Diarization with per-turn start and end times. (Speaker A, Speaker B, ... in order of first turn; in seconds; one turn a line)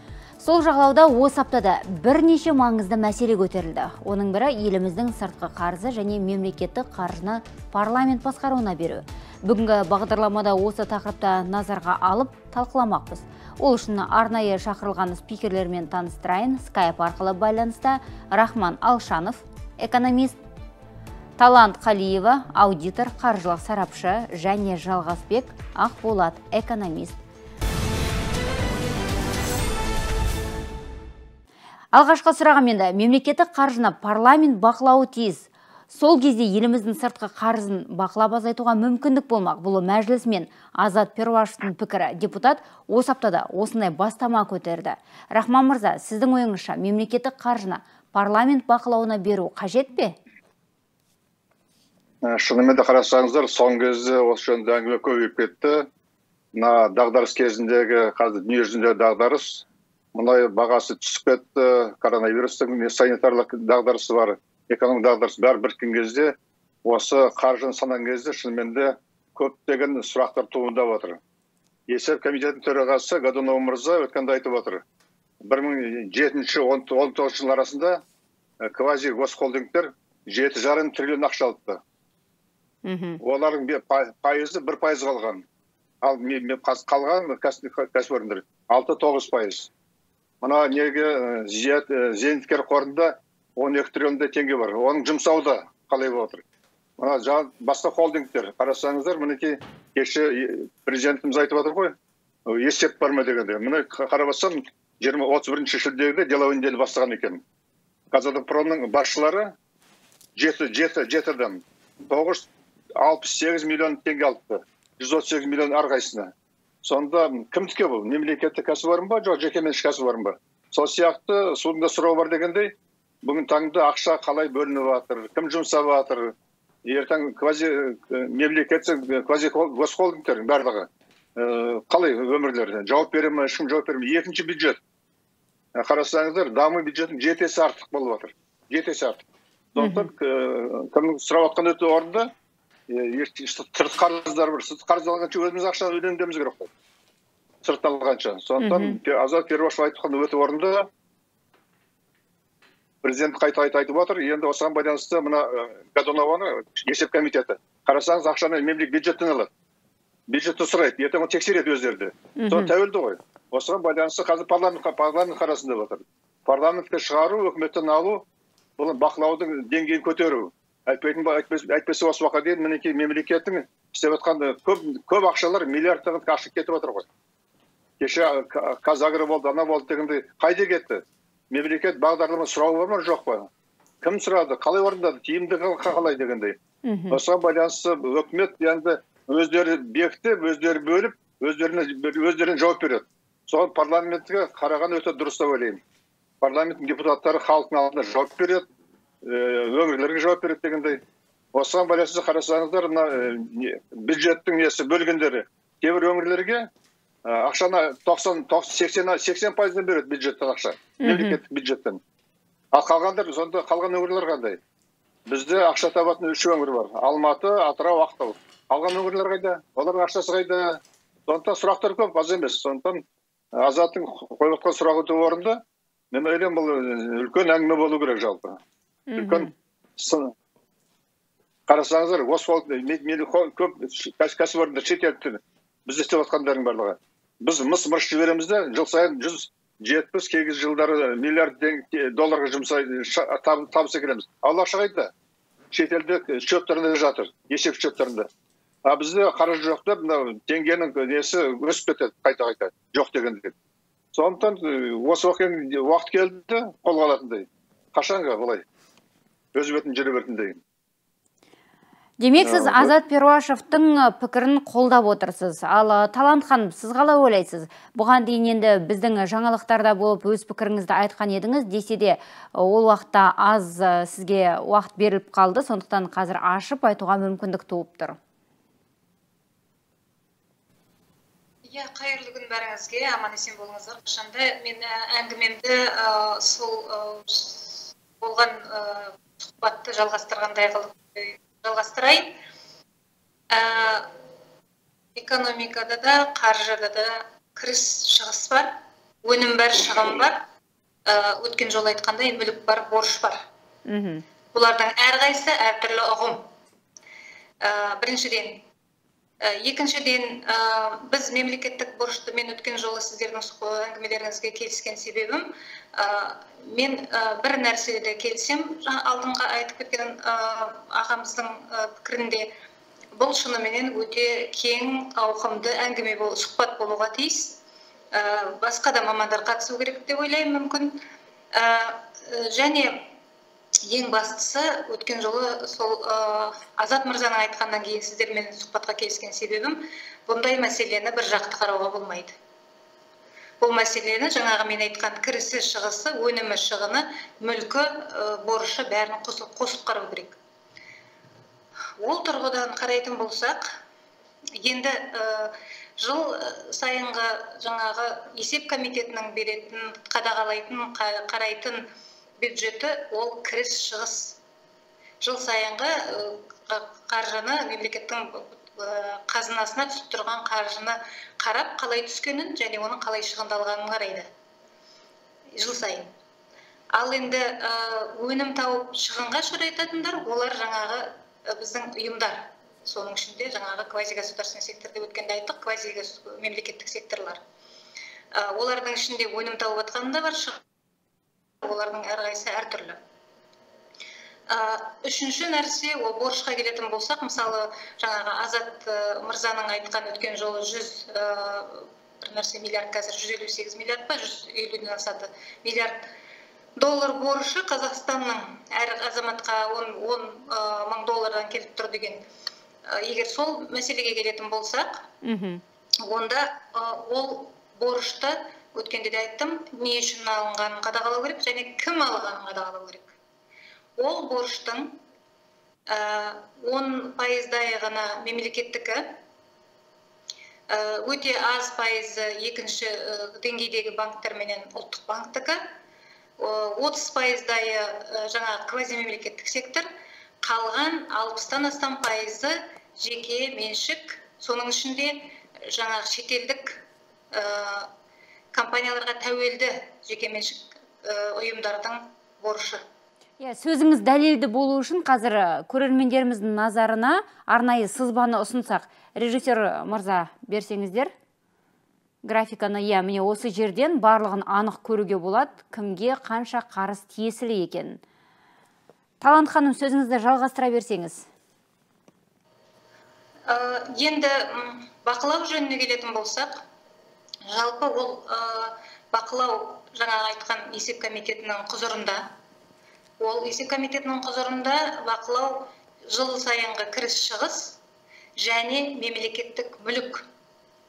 Speaker A: 0.4-20.4
Speaker A: 21.4-27.2
Speaker A: 31.9-50.1
Speaker B: 52.2-55.9
Speaker B: 56.5-71.2
Speaker B: 71.9-74.8
Speaker B: 75.4-78.0
Speaker B: 78.6-81.8
Speaker A: 82.8-83.2
Speaker B: 83.2-85.4
Speaker B: 86.0-89.7
Speaker B: 90.4-96.4
Speaker B: 97.0-107.4
Speaker B: 108.1-109.5
Speaker B: 110.3-116.3
Speaker B: 116.8-126.3
Speaker B: 126.8-134.8
Speaker B: 135.7-142.3
Speaker A: 139.8-140.1
Speaker B: 142.9-146.7
Speaker B: 147.6-150.9
Speaker A: 148.6-149.0
Speaker B: 153.0-159.5
Speaker B: 160.3-168.2
Speaker A: 162.4-162.7
Speaker B: 168.8-177.1
Speaker B: 178.0-183.5
Speaker B: 184.0-186.6
Speaker A: 186.8-187.2
Speaker B: 187.1-195.8
Speaker B: 196.4-198.6
Speaker B: 199.2-201.0
Speaker B: 201.5-206.7
Speaker B: 207.2-212.0
Speaker A: 211.0-211.4
Speaker B: 212.7-214.6
Speaker B: 215.3-223.0
Speaker B: 223.6-228.6
Speaker A: 229.1-229.5
Speaker B: 229.2-230.3
Speaker B: 231.7-245.1
Speaker B: 245.7-248.3
Speaker B: 248.8-253.5
Speaker B: 254.1-258.6
Speaker B: 259.5-260.6
Speaker A: 262.2-278.2
Speaker B: 262.4-262.9
Speaker C: 281.6-292.3
Speaker C: 293.5-294.1
Speaker C: 295.1-300.4
Speaker C: 301.1-303.4
Speaker A: 303.9-304.2
Speaker C: 304.5-306.5
Speaker C: 307.6-308.7
Speaker C: 309.4-322.5
Speaker C: 323.1-327.6
Speaker C: 328.1-330.9
Speaker C: 331.5-333.1
Speaker C: 333.9-342.3
Speaker C: 343.6-350.4
Speaker C: 352.0-353.6
Speaker C: 354.6-361.8
Speaker C: 362.4-364.4
Speaker C: 365.2-374.3
Speaker C: 375.6-376.1
Speaker C: 376.9-387.4
Speaker C: 388.3-390.6
Speaker C: 391.6-393.0
Speaker C: 394.5-406.0
Speaker C: 406.8-412.2
Speaker C: 412.9-415.1
Speaker A: 415.2-415.6
Speaker C: 416.1-423.1
Speaker C: 424.0-425.0
Speaker C: 425.9-429.1
Speaker C: 430.7-435.6
Speaker C: 436.4-439.9
Speaker C: 440.4-447.9
Speaker C: 448.5-452.8
Speaker A: 453.4-461.1
Speaker A: 462.2-468.0
Speaker A: 469.2-471.2
Speaker C: 473.5-476.6
Speaker C: 477.5-482.2
Speaker C: 483.2-487.8
Speaker C: 488.4-490.2